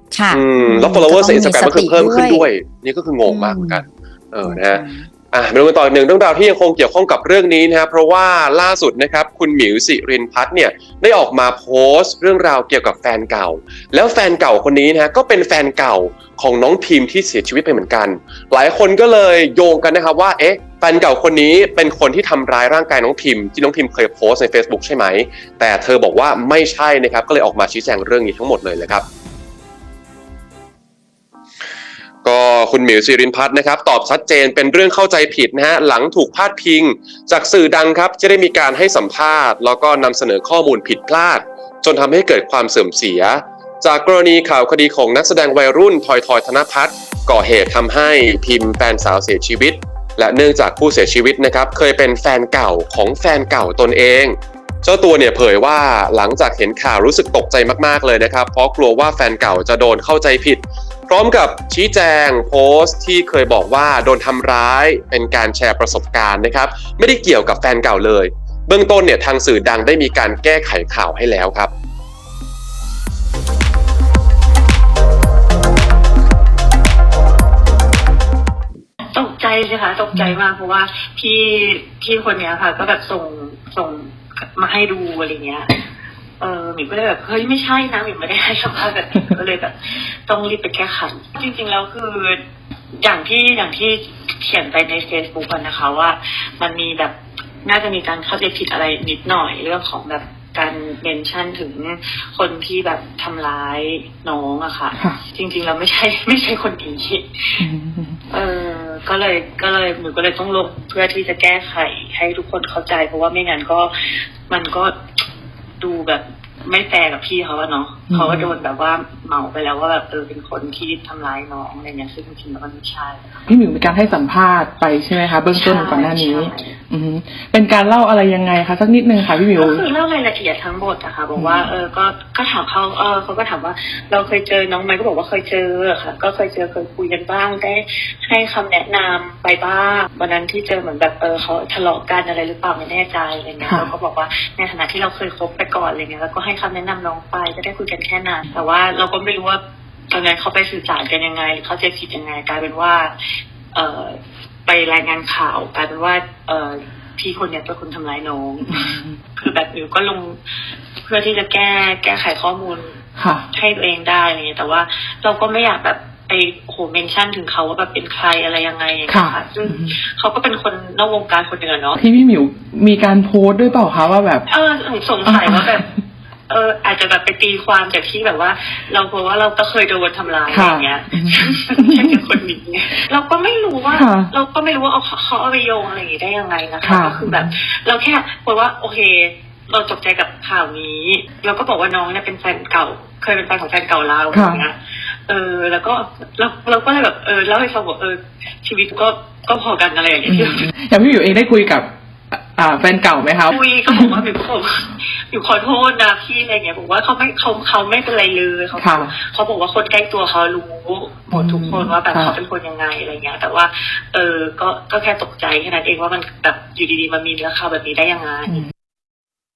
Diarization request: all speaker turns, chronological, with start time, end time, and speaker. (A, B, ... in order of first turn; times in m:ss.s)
0:00.1-0:02.5 A
0:00.3-0:29.0 B
0:03.2-0:03.8 A
0:04.4-0:05.1 A
0:32.2-1:11.7 B
1:19.1-1:25.7 C
1:26.4-1:32.4 C
1:33.0-1:47.7 C
1:44.9-1:45.2 D
1:47.6-1:48.2 D
1:48.3-1:55.0 C
1:55.8-2:03.5 C
1:58.1-1:58.5 D
2:03.5-2:09.9 D
2:05.5-2:06.7 C
2:09.5-2:33.1 C
2:11.4-2:11.7 D
2:23.6-2:23.9 D
2:33.7-2:40.4 C
2:38.7-2:39.1 D
2:41.0-2:43.0 C
2:43.2-2:43.5 D
2:43.5-2:52.0 C
2:49.1-2:50.0 D
2:52.0-2:54.4 D
2:54.4-2:55.9 C
2:55.2-2:55.9 D
2:56.5-3:14.8 C
3:00.5-3:02.2 D
3:03.9-3:04.3 D
3:06.8-3:07.5 D
3:14.3-3:14.6 D
3:15.3-3:20.7 C
3:20.2-3:24.3 D
3:23.5-3:38.6 C
3:28.8-3:29.1 D
3:31.3-3:32.4 D